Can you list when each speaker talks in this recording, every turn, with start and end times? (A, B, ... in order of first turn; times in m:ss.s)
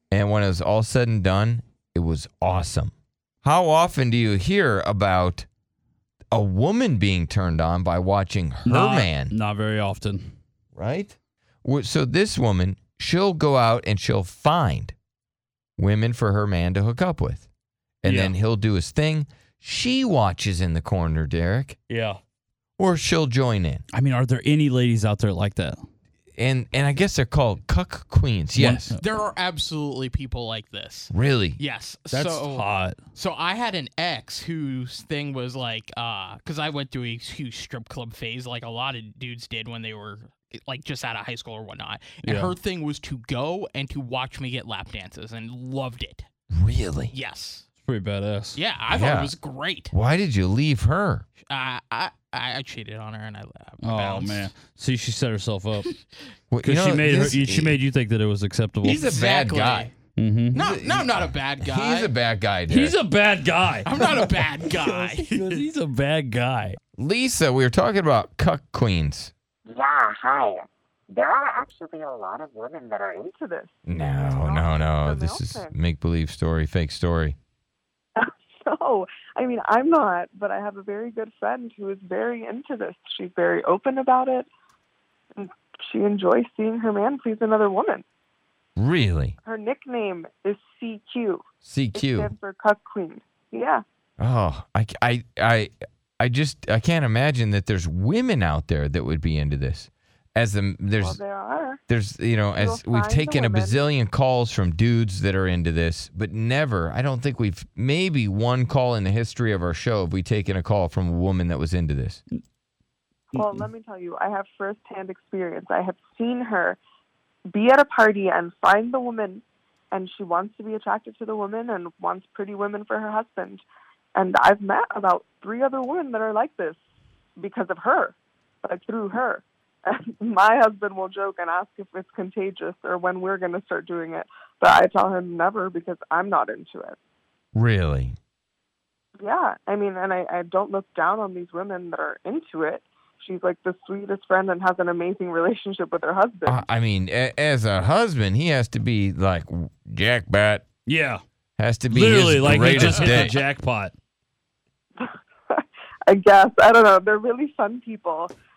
0:00.1-0:05.5 A
0:06.3-0:09.3 A
0:08.7-0:10.3 B
0:10.8-0:15.0 A
0:15.8-0:17.5 A
0:18.0-0:21.8 A
0:18.0-0:18.4 B
0:21.9-0:22.2 B
0:22.8-0:23.8 A
0:23.9-0:25.8 B
0:26.4-0:28.9 A
0:28.6-0:29.1 B
0:29.0-0:46.3 C
0:31.1-0:31.6 A
0:32.1-0:33.0 B
0:42.2-0:42.6 B
0:46.6-0:47.1 A
0:47.1-0:47.7 C
0:47.8-0:48.6 B
0:48.6-0:49.9 C
0:48.9-0:49.3 A
0:49.9-0:51.2 A
0:51.4-0:54.5 C
0:53.8-0:55.9 B
0:56.5-0:57.8 A
0:56.6-0:59.0 B
0:58.8-0:59.9 C
0:58.9-0:59.9 A
1:00.1-1:00.6 B
1:00.5-1:02.1 C
1:00.5-1:03.0 A
1:02.7-1:04.0 B
1:03.8-1:05.6 C
1:04.7-1:06.8 B
1:07.0-1:09.3 A
1:09.7-1:13.3 D
1:13.2-1:15.8 E
1:13.9-1:17.4 A
1:18.2-1:24.5 E
1:25.4-1:28.0 E
1:28.8-1:29.4 A
1:29.4-1:31.4 E
1:31.6-1:32.3 A
1:31.9-1:33.8 E
1:34.2-1:41.2 A
1:41.0-1:41.8 E
1:41.9-1:52.2 A
1:42.6-1:43.8 E
1:53.3-1:56.8 E
1:53.4-1:53.6 B
1:57.5-2:03.6 E
2:04.2-2:06.8 E
2:07.4-2:17.0 E
2:17.6-2:18.2 A
2:19.2-2:26.6 E
2:26.5-2:30.6 A
2:30.9-2:31.2 B
2:31.6-2:33.4 A
2:31.9-2:33.9 B
2:32.6-2:33.3 C
2:35.0-2:38.3 E